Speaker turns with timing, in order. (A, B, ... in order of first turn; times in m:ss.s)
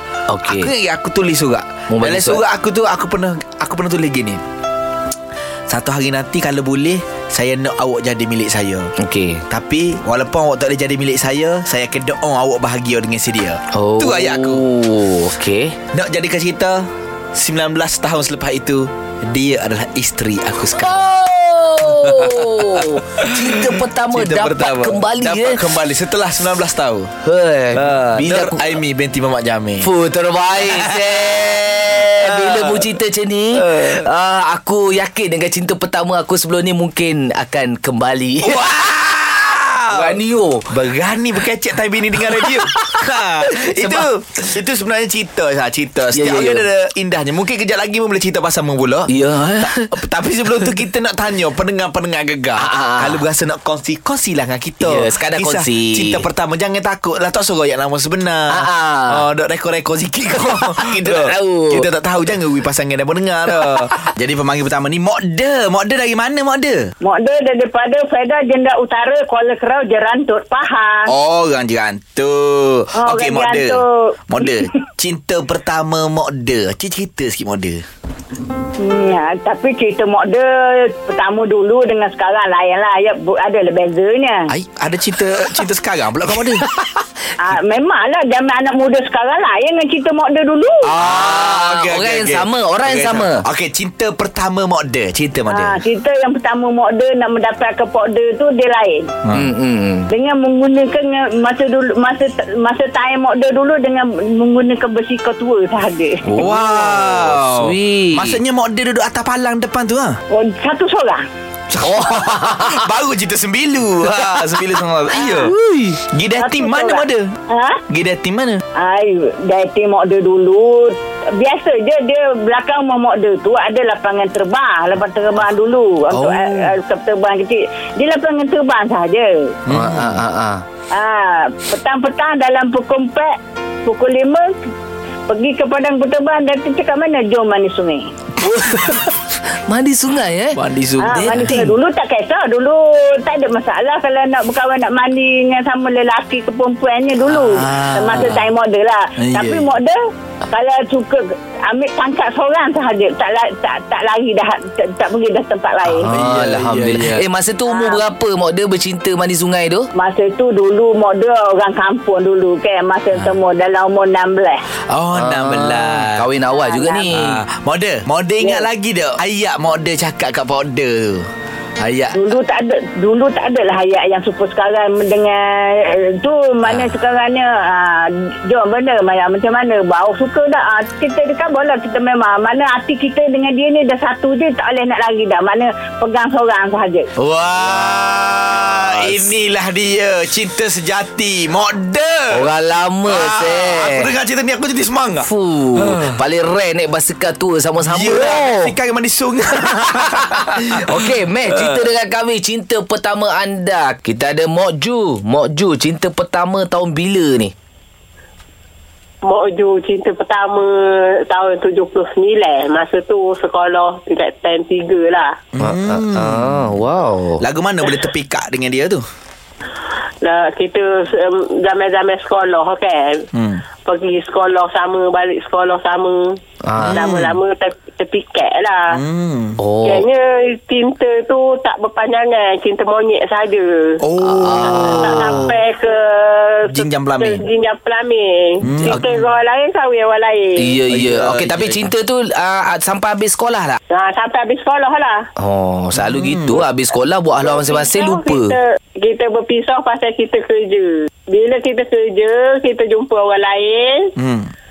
0:00.3-0:00.7 A
0:00.4-0:04.4 B
0:01.9-0:02.4 A
0:05.7-0:08.9 B
0:09.0-0:09.4 A
0:09.5-0:14.6 B
0:13.7-0:15.7 A
0:15.9-0:21.1 B
0:20.8-0:25.6 A
0:21.9-0:27.1 B
0:27.2-0:28.6 A
0:27.7-0:29.9 B
0:29.8-0:38.6 A
0:30.6-0:32.8 B
0:33.5-0:34.0 B
0:38.4-1:06.8 B
0:39.9-0:40.6 A
0:42.4-0:42.8 A
0:43.5-0:44.1 A
0:46.1-0:46.6 A
0:49.1-0:49.9 A
0:52.6-0:53.2 A
0:54.8-0:56.2 A
0:58.5-0:59.2 A
1:01.0-1:01.8 A
1:07.0-1:11.1 C
1:11.0-1:17.8 B
1:13.0-1:14.6 C
1:18.8-1:24.5 C
1:24.5-1:26.6 B
1:27.4-1:30.8 C
1:30.8-1:35.8 B
1:31.1-1:33.4 A
1:35.5-1:39.1 C
1:39.3-1:40.1 A
1:40.1-1:46.4 C
1:46.2-1:48.4 A
1:46.4-1:50.2 B
1:50.3-1:51.2 C
1:51.7-1:55.5 B
1:52.0-1:52.6 A
1:55.4-1:56.0 A
1:56.1-1:57.3 B
1:56.4-1:57.8 C
1:57.9-1:58.6 B
1:58.8-2:09.5 C
2:06.1-2:06.7 A
2:09.6-2:10.2 B
2:09.7-2:10.6 A
2:10.9-2:13.3 C
2:13.8-2:14.5 C
2:15.3-2:18.1 C
2:18.5-2:19.0 A
2:19.7-2:20.6 A
2:20.5-2:21.6 B
2:21.0-2:30.0 C
2:21.1-2:21.7 A
2:27.3-2:28.4 B
2:29.2-2:29.7 B
2:30.5-2:36.1 C
2:35.9-2:39.9 A
2:36.1-2:37.2 B
2:37.7-2:38.0 C
2:39.9-2:44.6 C
2:44.9-2:46.2 B
2:45.2-2:47.2 A
2:46.5-2:47.1 C
2:47.1-2:51.3 B
2:48.4-2:48.7 C
2:51.8-2:52.2 B
2:52.1-3:07.1 C
3:07.2-3:12.5 B
3:07.6-3:08.1 A
3:08.8-3:09.2 A
3:12.3-3:14.1 A
3:13.0-3:16.1 B
3:15.2-3:18.7 A
3:17.8-3:21.8 B
3:19.8-3:27.5 A
3:29.2-3:35.3 D
3:35.5-3:36.7 B
3:35.6-3:37.4 A
3:37.4-3:39.0 B
3:40.2-3:43.1 D
3:43.3-3:43.6 B
3:43.8-3:46.4 D
3:46.6-3:47.4 A
3:46.8-3:47.3 B
3:46.9-3:48.9 D
3:48.9-3:49.6 B
3:49.6-3:50.0 A
3:49.8-3:54.0 D
3:54.0-3:55.6 B
3:54.2-3:55.6 A
3:54.7-3:56.7 D
3:56.7-3:57.4 B
3:57.3-4:00.5 D
3:58.6-3:59.3 B
3:58.9-3:59.2 A
4:00.6-4:03.8 A
4:00.9-4:01.9 B
4:03.9-4:05.2 D
4:05.4-4:08.6 A
4:05.9-4:06.6 B
4:07.5-4:14.1 D
4:14.2-4:14.5 B